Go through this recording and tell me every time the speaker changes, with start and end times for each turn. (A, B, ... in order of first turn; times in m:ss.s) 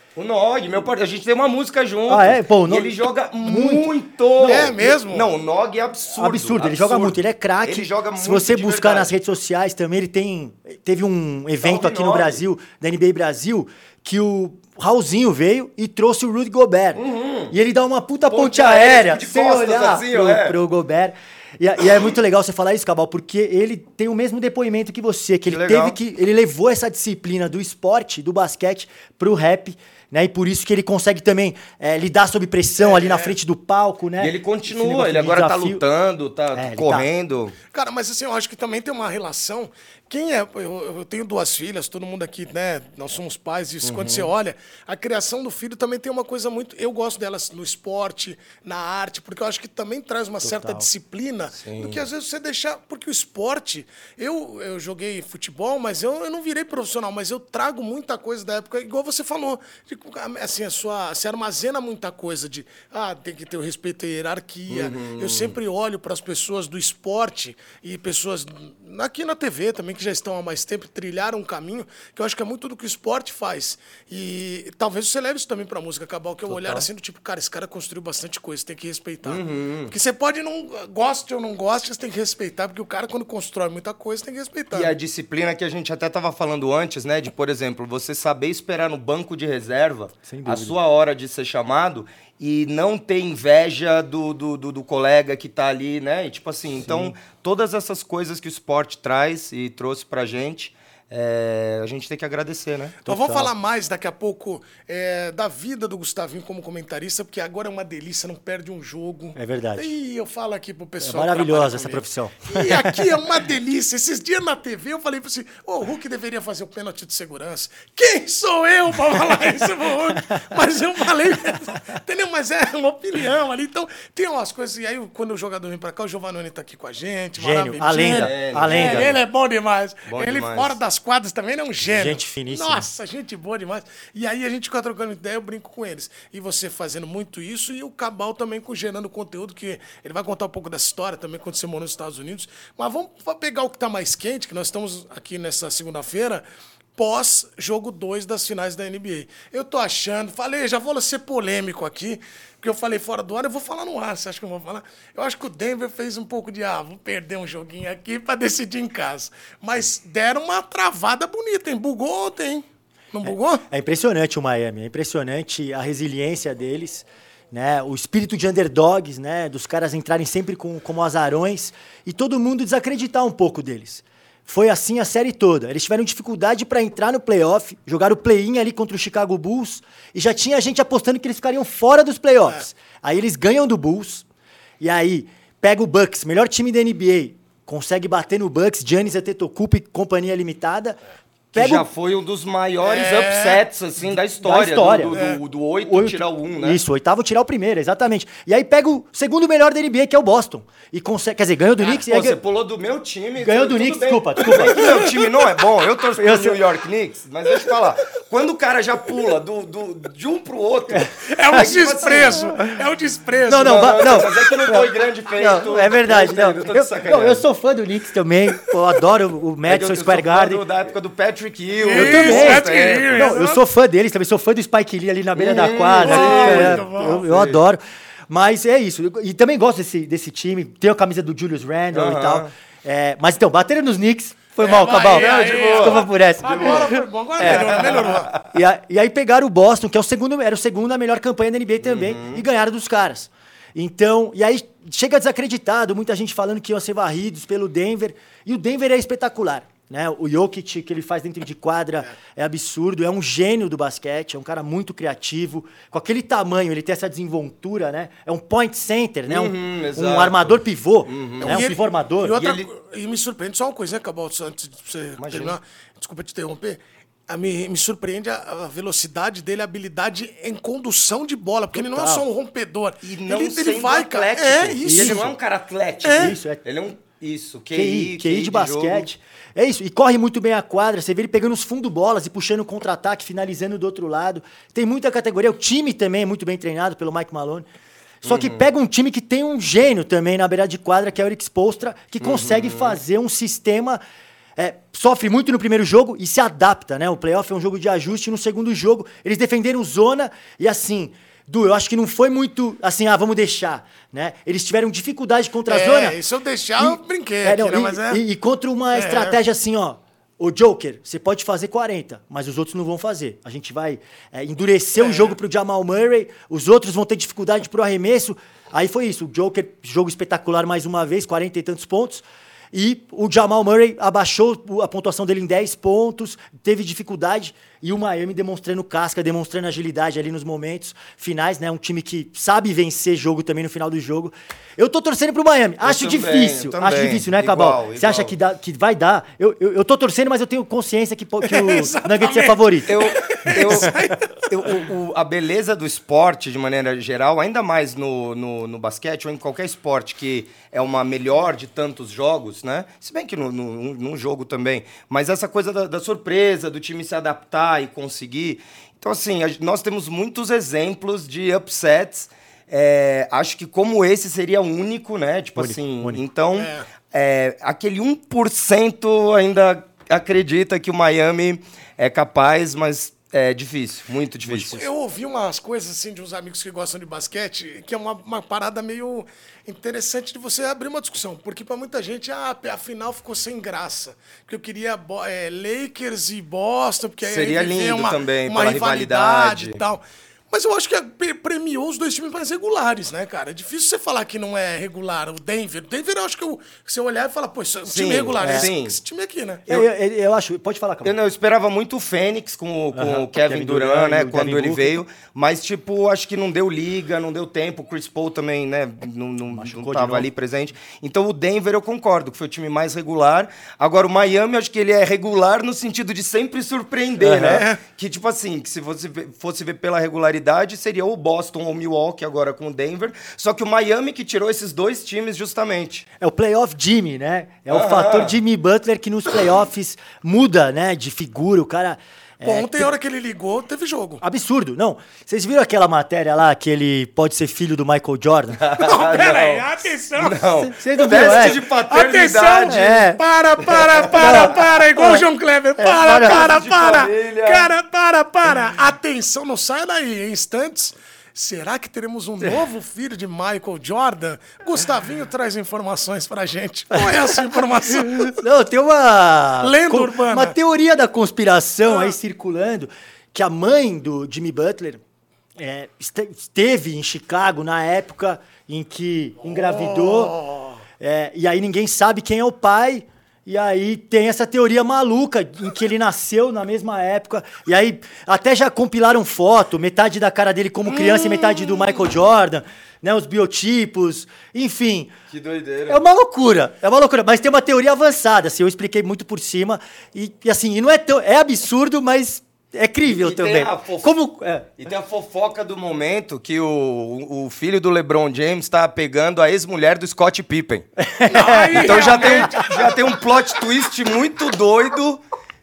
0:00.2-0:09.1 A
0:02.1-0:04.9 B
0:04.4-0:05.3 C
0:06.2-0:35.8 B
0:11.6-0:12.4 A
0:17.0-0:17.5 A
0:18.3-0:20.6 A
0:25.5-0:26.0 A
0:32.8-0:33.3 C
0:34.2-0:37.5 A
0:36.5-0:37.1 B
0:37.7-1:24.9 C
0:43.8-0:44.3 A
0:50.4-0:50.8 B
0:51.6-0:52.0 A
1:04.7-1:05.6 A
1:16.5-1:16.8 A
1:19.2-1:19.9 A
1:24.7-1:42.9 A
1:30.2-1:30.8 B
1:36.8-1:37.1 B
1:43.0-2:26.4 C
1:43.1-1:43.5 B
1:49.3-1:49.9 B
1:51.0-1:53.0 B
2:07.4-2:09.2 B
2:08.0-2:09.2 A
2:10.1-2:10.8 A
2:11.9-2:12.8 B
2:27.0-2:43.6 C
2:43.2-3:04.2 B
3:04.8-3:11.0 B
3:11.5-3:16.8 A
3:11.5-3:11.9 B
3:12.8-3:13.6 C
3:14.1-3:15.2 B
3:15.1-3:15.4 C
3:15.8-3:22.4 B
3:21.8-3:32.5 A
3:23.4-3:25.1 B
3:24.8-3:25.0 C
3:26.2-3:26.6 B
3:31.3-3:33.9 C
3:33.5-3:40.6 B
3:33.5-3:37.4 A
3:39.6-3:43.3 A
3:41.8-3:43.6 C
3:41.9-3:57.8 B
3:45.3-3:47.6 A
3:46.0-3:47.3 C
3:51.9-3:52.5 A
3:54.6-3:58.3 C
3:55.1-3:56.9 A
3:57.5-3:58.4 A
3:58.4-4:22.4 B
4:01.8-4:02.4 A
4:19.3-4:21.6 A
4:21.4-4:35.3 C
4:22.4-4:22.6 A
4:25.2-4:25.6 A
4:31.7-4:32.2 B
4:33.0-4:39.1 A
4:34.8-4:35.3 B
4:36.0-4:36.4 C
4:36.1-4:36.6 B
4:37.7-4:47.6 B
4:48.2-4:54.0 B
4:48.2-4:48.6 A
4:52.2-4:53.0 A
4:54.6-5:06.2 B
5:05.7-5:08.2 C
5:06.8-5:42.9 B
5:08.9-5:09.4 C
5:15.0-5:15.3 C
5:35.8-5:38.4 A
5:41.4-5:44.3 C
5:42.9-5:43.9 A
5:44.4-6:14.8 A
6:05.6-6:06.2 B
6:06.6-6:06.8 C
6:14.5-6:39.6 C
6:27.2-6:29.8 A
6:37.9-6:39.0 A
6:38.4-6:38.7 B
6:39.7-6:41.1 B
6:41.0-7:06.0 A
6:42.9-6:45.0 B
6:49.5-6:50.3 B
6:57.2-6:57.6 B
6:57.4-6:57.8 C
7:06.2-7:12.9 B
7:07.7-7:08.4 A
7:12.4-7:14.2 C
7:14.2-7:18.6 B
7:18.6-7:19.7 A
7:18.8-7:20.4 C
7:20.2-7:23.0 A
7:20.6-7:21.6 B
7:21.1-7:38.4 C
7:22.6-7:23.2 B
7:23.7-7:24.5 A
7:24.2-7:25.2 B
7:25.8-7:26.5 B
7:26.1-7:27.7 A
7:36.9-7:45.0 B
7:39.6-7:40.5 C
7:41.8-7:42.1 C
7:45.6-7:50.4 B
7:49.4-7:50.8 C
7:51.0-8:05.1 B
8:05.3-8:06.0 A
8:05.9-8:14.7 B
8:13.0-8:14.1 A
8:14.8-8:20.8 A
8:21.0-8:22.1 B
8:21.3-8:23.1 C
8:21.8-8:25.2 A